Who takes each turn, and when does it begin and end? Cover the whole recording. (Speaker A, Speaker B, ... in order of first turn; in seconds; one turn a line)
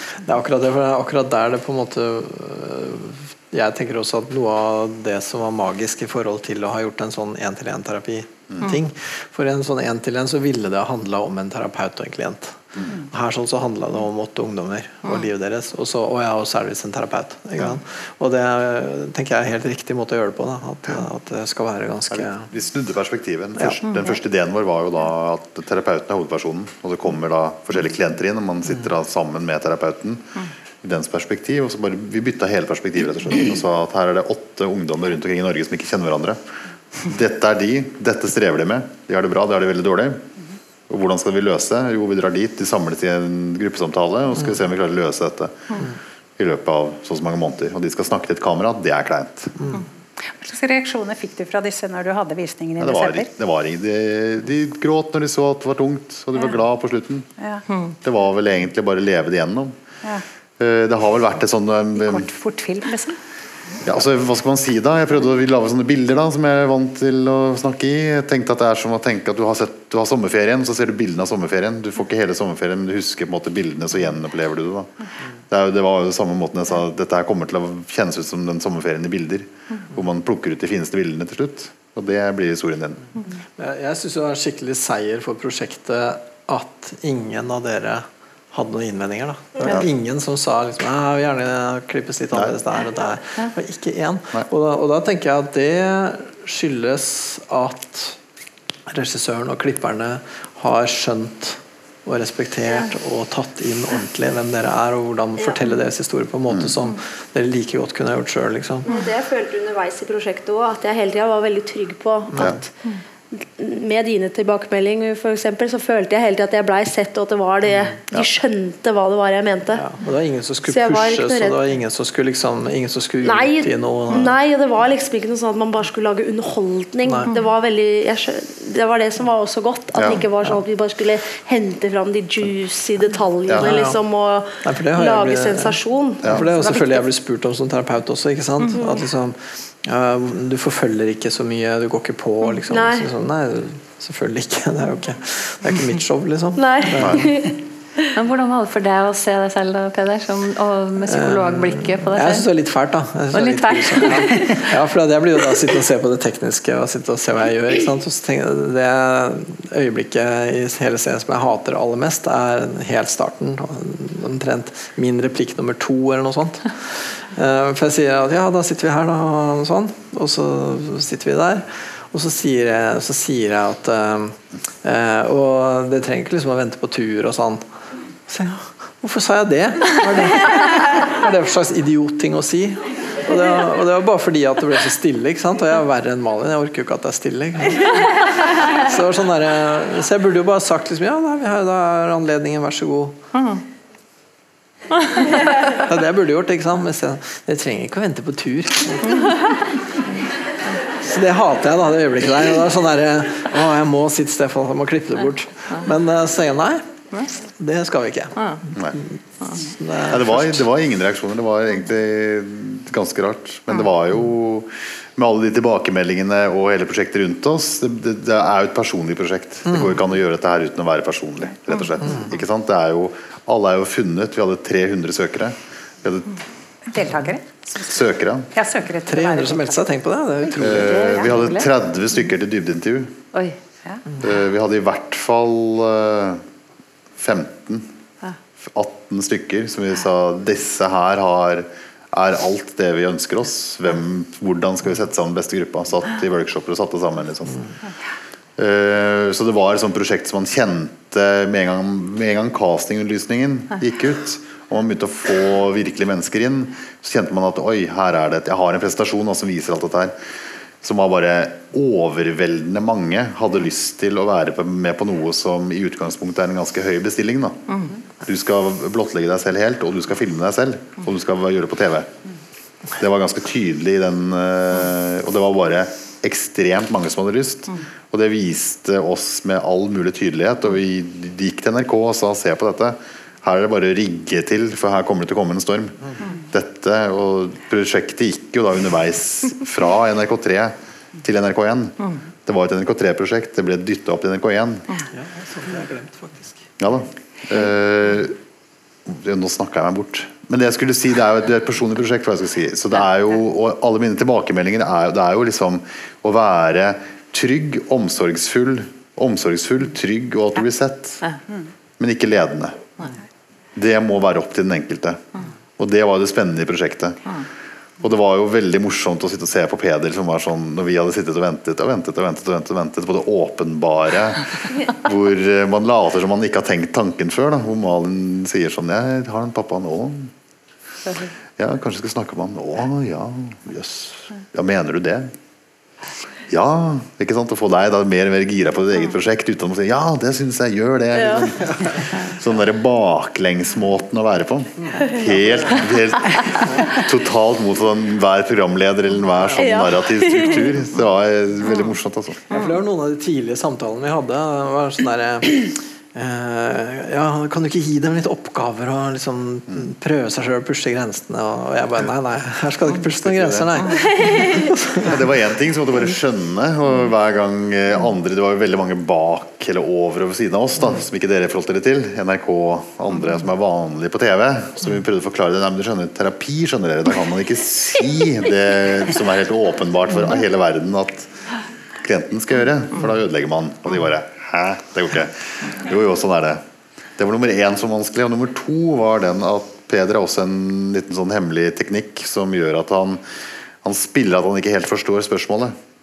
Speaker A: 0.2-22.5
Speaker B: 22.1-36.4
Speaker B: 37.0-40.3
Speaker B: 40.9-45.9
Speaker B: 46.4-49.6
Speaker C: 50.4-53.3
Speaker B: 52.8-57.3
Speaker C: 57.4-57.6
Speaker B: 58.0-59.8
Speaker B: 60.6-62.3
Speaker C: 62.0-63.2
Speaker B: 63.9-74.9
Speaker B: 75.5-83.0
Speaker A: 83.6-98.2
Speaker A: 98.9-108.8
Speaker B: 106.5-106.7
Speaker D: 108.8-112.7
Speaker D: 113.3-119.8
Speaker A: 119.8-124.4
Speaker D: 120.7-121.6
Speaker D: 123.2-136.4
Speaker A: 127.0-127.3
Speaker B: 130.0-130.2
Speaker A: 133.6-134.0
Speaker A: 134.6-147.3
Speaker D: 138.8-139.1
Speaker D: 142.6-143.1
Speaker D: 146.6-147.6
Speaker B: 147.0-147.3
Speaker E: 148.2-152.5
Speaker A: 151.1-177.7
Speaker E: 153.3-154.7
Speaker A: 178.3-188.2
Speaker A: 188.8-193.2
Speaker E: 193.3-193.6
Speaker A: 195.8-199.3
Speaker A: 201.1-206.8
Speaker A: 207.4-210.7
Speaker B: 210.1-226.3
Speaker A: 219.7-219.9
Speaker C: 226.9-228.0
Speaker B: 227.9-228.5
Speaker C: 228.5-229.8
Speaker A: 229.1-231.2
Speaker B: 230.6-233.2
Speaker E: 230.8-231.7
Speaker B: 234.2-236.4
Speaker B: 237.2-237.9
Speaker B: 238.6-247.6
Speaker B: 248.6-260.1
Speaker B: 260.8-267.7
Speaker B: 268.2-272.1
Speaker B: 273.0-286.0
Speaker B: 286.5-294.9
Speaker A: 295.1-296.7
Speaker B: 296.8-298.4
Speaker B: 299.1-311.2
Speaker B: 312.0-312.9
Speaker B: 313.8-315.2
Speaker B: 315.8-317.3
Speaker B: 318.0-330.3
Speaker B: 331.6-335.3
Speaker B: 336.5-352.4
Speaker D: 341.2-341.5
Speaker A: 344.8-345.2
Speaker A: 349.4-349.7
Speaker D: 349.6-350.7
Speaker A: 352.5-365.1
Speaker B: 363.2-363.7
Speaker B: 365.1-381.3
Speaker B: 382.0-386.6
Speaker B: 387.2-393.2
Speaker B: 393.8-395.7